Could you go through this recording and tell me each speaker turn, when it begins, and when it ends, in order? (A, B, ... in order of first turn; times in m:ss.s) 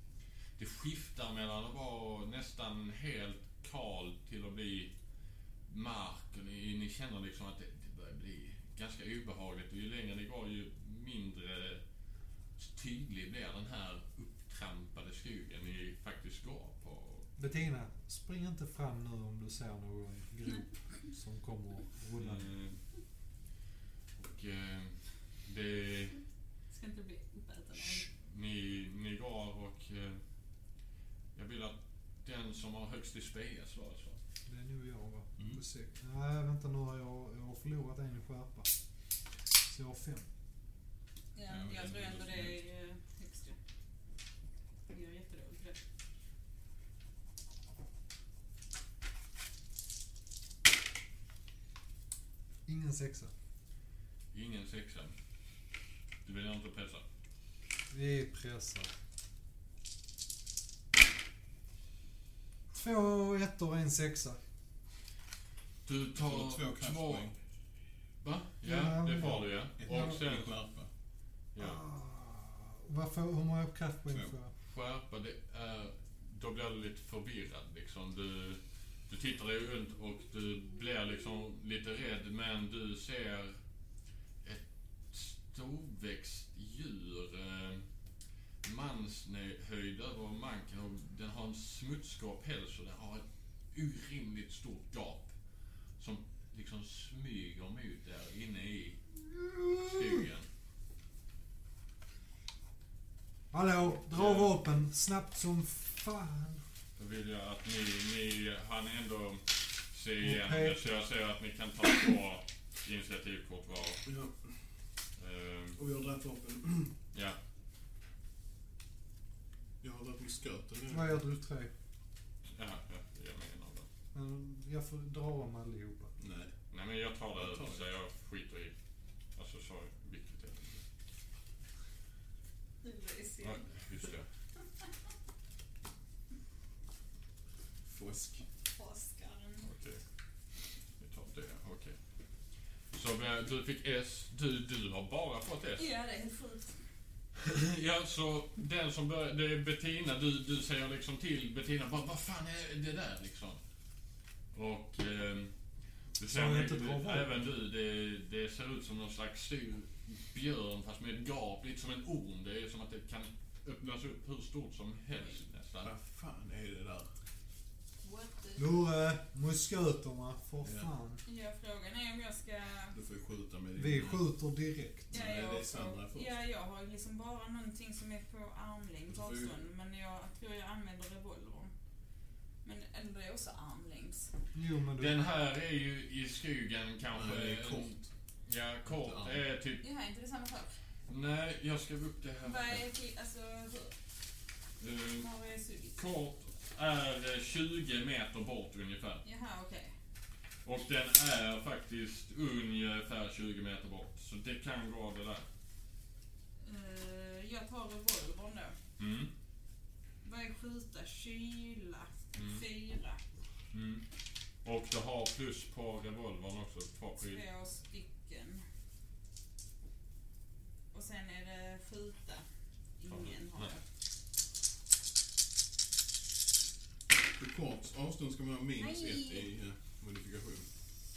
0:00.6-0:04.9 A
0:05.7-0:11.8 A
0:12.6-0:17.3 A
0:17.4-0:22.5 B
0:22.2-0:22.8 A
0:24.2-0:26.2 A
0:26.7-0:28.1 C
0:28.1-0:30.2 A
0:31.4-0:34.2 A
0:34.5-0:38.7 B
0:39.6-0:40.3 B
0:41.4-0:43.6 C
0:41.5-0:42.6 D
0:44.9-0:45.8 C
0:52.7-0:53.3 B
0:54.3-0:55.2 A
0:56.2-0:57.0 A
0:57.9-0:58.9 B
1:02.7-1:04.4 B
1:05.9-1:07.3 A
1:06.2-1:07.4 D
1:08.2-1:10.6 A
1:08.6-1:10.2 B
1:09.8-1:10.9 D
1:11.5-1:11.8 A
1:11.6-1:14.5 B
1:14.6-1:23.6 A
1:24.4-1:27.8 A
1:28.6-1:35.3 A
1:36.0-1:39.0 A
1:39.3-1:40.2 B
1:39.8-1:40.5 A
1:43.5-1:46.6 B
1:44.1-1:44.6 A
1:47.0-1:54.0 A
1:50.2-1:50.8 B
1:54.1-1:54.6 D
1:55.2-1:55.8 A
1:55.8-1:56.9 D
1:57.1-1:57.4 A
1:59.8-2:01.2 D
2:00.9-2:01.7 B
2:02.5-2:03.9 A
2:04.1-2:06.2 B
2:06.2-2:06.5 D
2:06.7-2:08.7 A
2:07.4-2:07.8 D
2:09.4-2:10.8 A
2:12.8-2:14.1 C
2:13.4-2:14.3 A
2:17.9-2:18.4 D
2:18.7-2:19.7 C
2:19.6-2:20.0 A
2:21.0-2:22.0 A
2:22.9-2:25.9 A
2:25.8-2:26.8 C
2:27.4-2:33.6 A
2:34.5-2:35.5 A
2:36.2-2:45.9 A
2:36.2-2:37.3 B
2:45.8-2:47.1 D
2:48.0-2:48.8 C
2:48.6-2:51.2 B
2:50.6-2:50.9 D
2:51.3-2:53.0 C
2:52.9-2:54.2 D
2:53.8-2:55.1 B
2:55.1-2:56.3 D
2:55.1-3:01.7 C
2:59.1-2:59.6 D
3:02.6-3:04.3 C
3:04.5-3:05.2 B
3:05.0-3:07.9 A
3:07.1-3:08.1 D
3:08.5-3:09.8 A
3:08.9-3:09.4 D
3:09.8-3:10.7 C
3:11.1-3:12.8 A
3:12.4-3:13.9 C
3:14.8-3:15.3 A
3:15.2-3:16.0 C
3:16.0-3:19.2 A
3:19.2-3:19.9 C
3:20.6-3:25.5 A
3:26.6-3:28.8 C
3:29.0-3:29.3 A
3:30.2-3:33.2 C
3:32.4-3:32.6 A
3:33.7-3:34.0 A
3:34.6-3:37.4 A
3:37.2-3:38.6 C
3:40.9-3:42.4 C
3:43.0-3:43.8 C
3:43.1-3:43.7 A
3:47.4-3:50.7 D
3:48.8-3:49.5 C